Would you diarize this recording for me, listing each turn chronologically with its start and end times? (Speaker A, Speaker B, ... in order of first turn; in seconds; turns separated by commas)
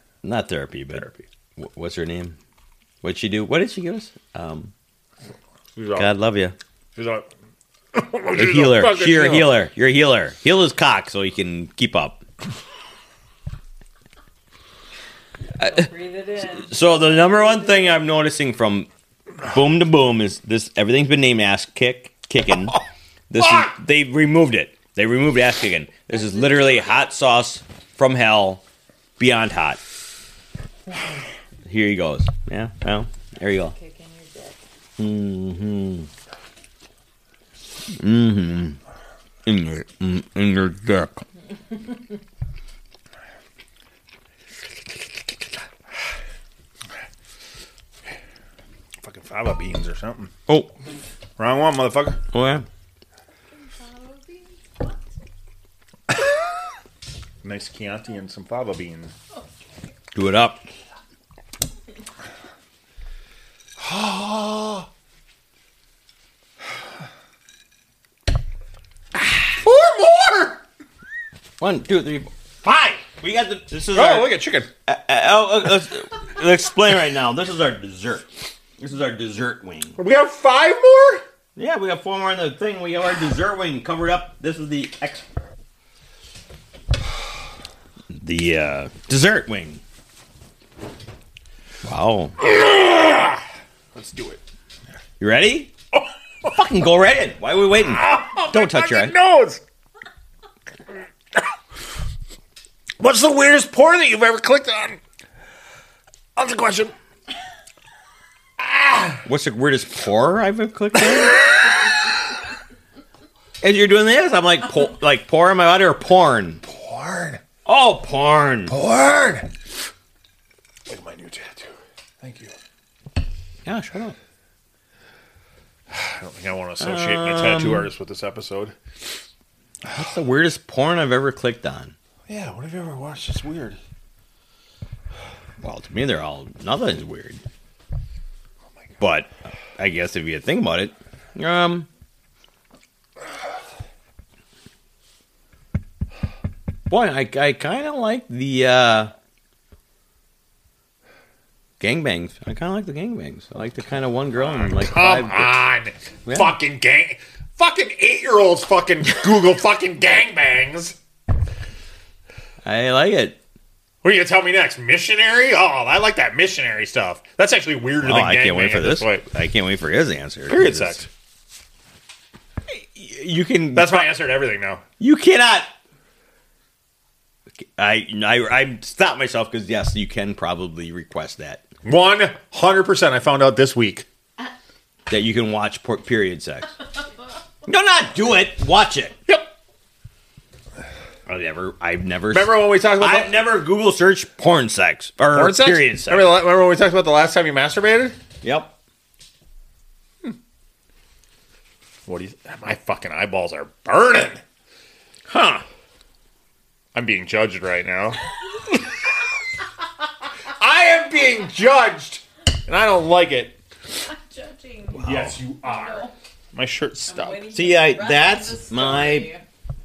Speaker A: 0.2-1.1, Speaker B: 0.9-1.2, Speaker A: 1.6-2.4, Speaker A: 3.0-4.7, Speaker B: 5.8-6.1, Speaker A: 5.9-6.5, Speaker B: 6.9-7.2, Speaker B: 7.9-9.6, Speaker A: 8.3-12.2, Speaker A: 15.6-15.9, Speaker C: 15.6-17.9, Speaker A: 16.5-18.9, Speaker A: 19.4-28.6, Speaker A: 29.2-29.8, Speaker A: 31.6-33.8, Speaker C: 33.6-34.6, Speaker A: 35.0-36.1, Speaker A: 37.9-38.8, Speaker A: 39.5-41.2, Speaker B: 49.0-50.3, Speaker B: 51.4-52.2, Speaker A: 52.3-52.6, Speaker C: 53.5-55.0, Speaker B: 57.4-59.1, Speaker A: 60.1-60.6, Speaker B: 63.8-64.9, Speaker B: 69.5-70.6, Speaker A: 71.6-80.0, Speaker B: 73.9-74.7, Speaker B: 80.0-81.2, Speaker A: 81.5-85.3, Speaker A: 88.1-89.8, Speaker A: 91.8-92.4, Speaker B: 92.4-93.4, Speaker B: 93.9-94.4, Speaker A: 95.2-95.7, Speaker A: 96.4-99.1, Speaker B: 97.8-99.6, Speaker B: 103.0-105.0, Speaker B: 106.3-106.9, Speaker B: 108.6-109.2, Speaker A: 109.2-111.4, Speaker A: 113.6-116.6, Speaker B: 116.6-117.4, Speaker A: 117.7-118.7, Speaker B: 118.7-119.5, Speaker B: 120.9-122.5, Speaker A: 123.6-124.2, Speaker B: 125.9-128.7, Speaker A: 126.8-127.9, Speaker A: 129.8-131.9, Speaker B: 132.3-133.8, Speaker A: 135.6-137.4, Speaker A: 139.0-141.9, Speaker A: 146.9-149.1, Speaker A: 151.8-155.6, Speaker B: 154.3-161.0, Speaker A: 156.2-156.5, Speaker A: 162.6-163.4, Speaker B: 164.0-169.2, Speaker A: 168.0-171.1, Speaker B: 170.5-171.1, Speaker A: 172.7-174.1, Speaker B: 173.7-174.8, Speaker A: 175.0-175.7, Speaker A: 177.6-181.6, Speaker B: 181.8-184.1, Speaker A: 185.1-186.7, Speaker A: 187.7-189.2, Speaker A: 191.3-196.3, Speaker B: 192.3-193.6, Speaker B: 195.3-198.2, Speaker A: 198.4-198.7, Speaker B: 202.1-204.4, Speaker A: 205.3-205.6, Speaker B: 206.9-208.2, Speaker B: 210.6-213.6, Speaker C: 214.0-216.1, Speaker A: 214.9-215.4, Speaker B: 215.0-217.5, Speaker C: 217.1-219.4, Speaker A: 217.5-219.3